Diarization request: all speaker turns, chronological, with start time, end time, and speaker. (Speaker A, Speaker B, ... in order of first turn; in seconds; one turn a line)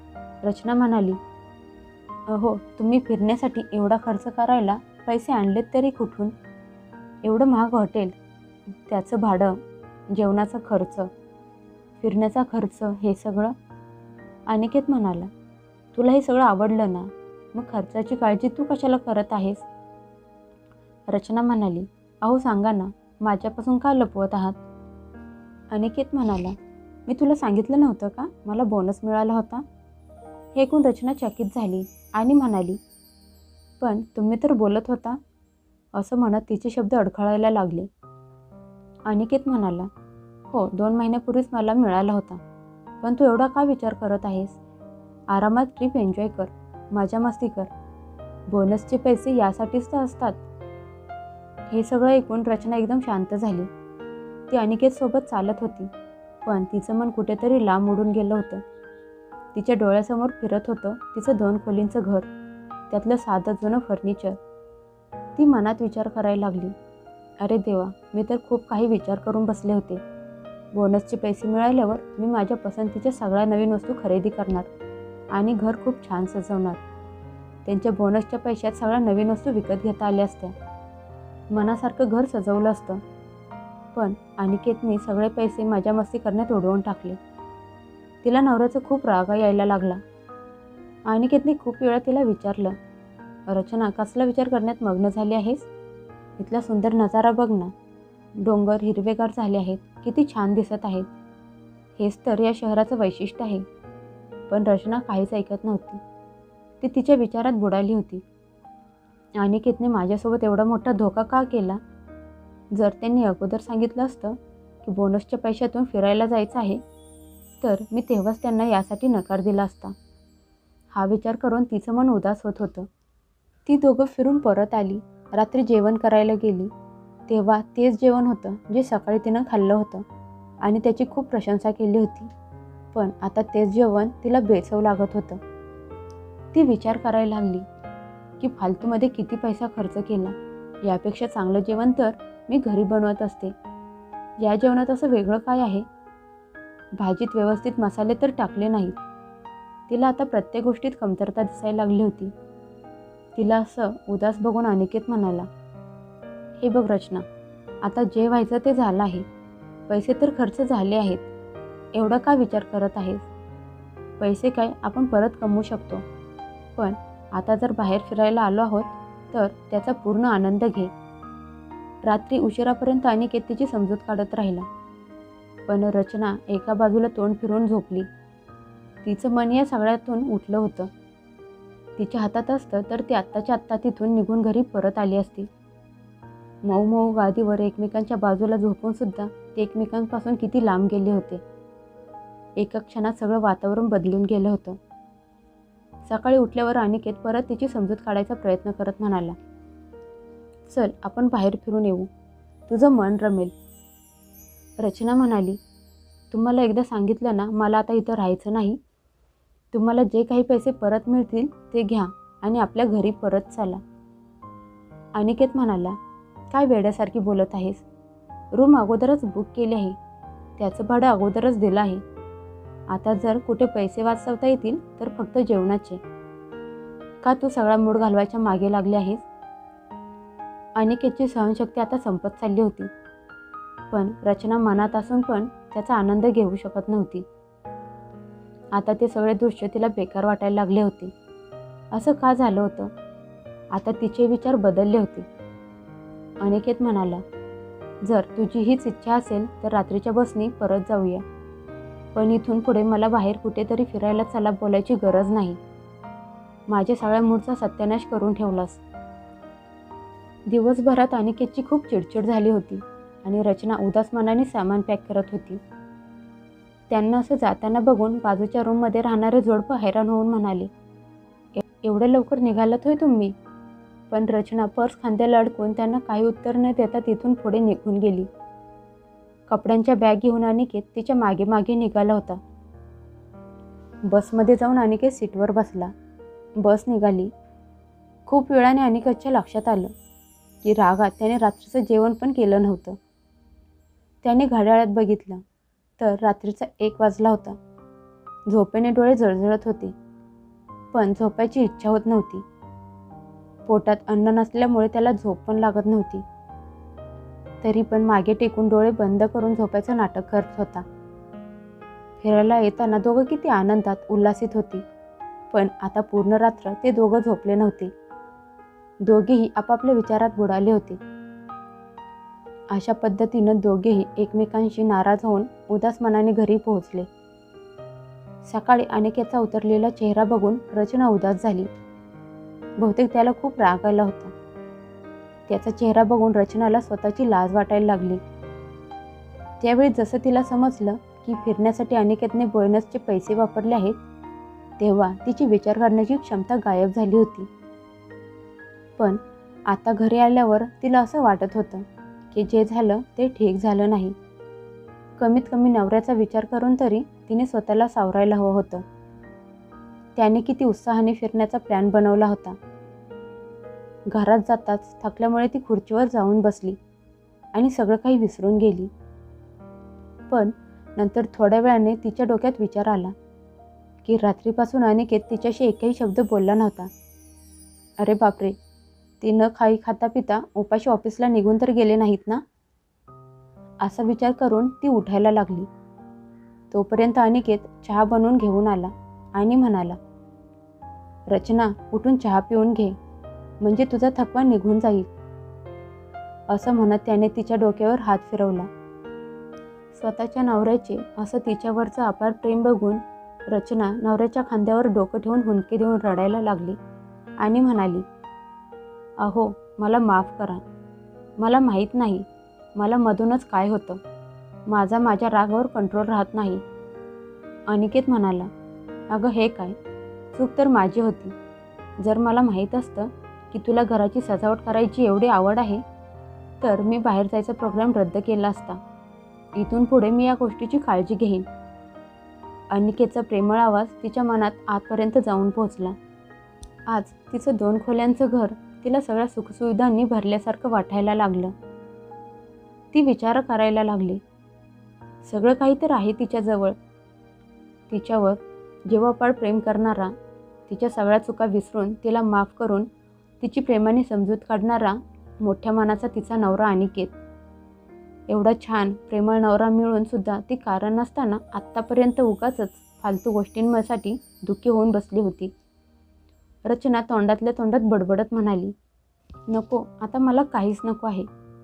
Speaker A: 0.4-1.2
Speaker A: 2.3-6.3
Speaker A: 7.2-8.1
Speaker A: 8.8-9.6
Speaker A: 10.1-11.1
Speaker A: 12.0-13.5
Speaker A: 14.5-15.3
Speaker A: 15.9-19.6
Speaker A: 21.1-24.6
Speaker A: 25.7-26.5
Speaker A: 27.1-29.6
Speaker A: 30.5-32.8
Speaker A: 33.8-35.2
Speaker A: 35.9-37.9
Speaker A: 39.1-39.9
Speaker A: 40.5-42.4
Speaker A: 43.0-44.6
Speaker A: 45.3-47.7
Speaker A: 48.5-50.4
Speaker A: 51.7-53.7
Speaker A: 54.5-55.9
Speaker A: 56.4-58.6
Speaker A: 59.5-62.3
Speaker A: 62.9-64.4
Speaker A: 65.4-66.7
Speaker A: 67.4-70.0
Speaker A: 70.7-74.7
Speaker A: 75.3-76.8
Speaker A: 77.6-80.5
Speaker A: 81.5-83.0
Speaker A: 83.9-87.2
Speaker A: 88.2-90.0
Speaker A: 91.1-92.8
Speaker A: 93.5-95.7
Speaker A: 96.4-97.7
Speaker A: 98.4-101.1
Speaker A: 102.0-103.6
Speaker A: 104.5-106.0
Speaker A: 106.8-108.2
Speaker A: 109.4-111.8
Speaker A: 112.7-116.8
Speaker A: 117.6-119.9
Speaker A: 120.9-122.9
Speaker A: 123.7-126.7
Speaker A: 127.3-130.0
Speaker A: 130.6-132.3
Speaker A: 132.9-135.4
Speaker A: 136.5-137.7
Speaker A: 138.4-143.5
Speaker A: 144.4-145.8
Speaker A: 147.0-149.0
Speaker A: 149.9-152.3
Speaker A: 153.3-155.5
Speaker A: 156.6-157.2
Speaker A: 157.8-159.2
Speaker A: 159.9-161.3
Speaker A: 161.9-163.3
Speaker A: 164.2-166.0
Speaker A: 166.8-170.9
Speaker A: 172.0-174.7
Speaker A: 175.7-178.1
Speaker A: 179.0-180.9
Speaker A: 182.0-185.5
Speaker A: 186.6-191.4
Speaker A: 192.6-194.8
Speaker A: 196.0-199.3
Speaker A: 200.7-202.1
Speaker A: 202.7-203.5
Speaker A: 204.8-205.6
Speaker A: 206.3-208.8
Speaker A: 209.7-213.8
Speaker A: 215.1-216.0
Speaker A: 216.5-217.8
Speaker A: 218.5-220.0
Speaker A: 220.6-222.0
Speaker A: 222.9-226.0
Speaker A: 227.2-229.2
Speaker A: 230.8-232.9
Speaker A: 233.9-237.2
Speaker A: 238.7-241.1
Speaker A: 241.9-242.9
Speaker A: 243.7-245.2
Speaker A: 246.4-247.2
Speaker A: 248.0-251.2
Speaker A: 252.1-255.6
Speaker A: 256.7-258.8
Speaker A: 260.5-265.6
Speaker A: 266.9-270.7
Speaker A: 271.5-273.3
Speaker A: 274.1-278.3
Speaker A: 279.5-282.4
Speaker A: 284.1-285.9
Speaker A: 286.6-287.3
Speaker A: 288.3-289.9
Speaker A: 290.6-293.0
Speaker A: 294.2-295.4
Speaker A: 296.0-297.6
Speaker A: 298.5-299.9
Speaker A: 300.9-302.4
Speaker A: 303.6-306.2
Speaker A: 307.6-310.8
Speaker A: 312.2-314.8
Speaker A: 315.5-317.9
Speaker A: 319.0-321.0
Speaker A: 322.7-327.1
Speaker A: 328.4-331.7
Speaker A: 332.8-334.3
Speaker A: 335.5-338.2
Speaker A: 339.6-344.0
Speaker A: 344.8-347.5
Speaker A: 349.0-354.1
Speaker A: 355.2-358.8
Speaker A: 360.1-362.6
Speaker A: 364.1-366.8
Speaker A: 367.5-368.9
Speaker A: 370.3-373.1
Speaker A: 374.0-376.9
Speaker A: 378.0-378.5
Speaker A: 379.2-382.4
Speaker A: 383.8-385.7
Speaker A: 386.7-390.0
Speaker A: 391.3-392.9
Speaker A: 393.6-395.1
Speaker A: 396.5-398.7
Speaker A: 399.9-406.8
Speaker A: 407.4-408.1
Speaker A: 409.2-410.6
Speaker A: 411.4-414.0
Speaker A: 414.7-416.6
Speaker A: 417.7-418.5
Speaker A: 419.1-419.8
Speaker A: 420.3-421.3
Speaker A: 422.0-425.8
Speaker A: 426.6-428.8
Speaker A: 429.6-431.4
Speaker A: 432.7-435.9
Speaker A: 436.9-441.5
Speaker A: 442.9-444.2
Speaker A: 445.2-446.7
Speaker A: 447.9-450.1
Speaker A: 450.7-452.9
Speaker A: 453.4-457.2
Speaker A: 458.3-465.5
Speaker A: 466.6-468.7
Speaker A: 469.5-471.3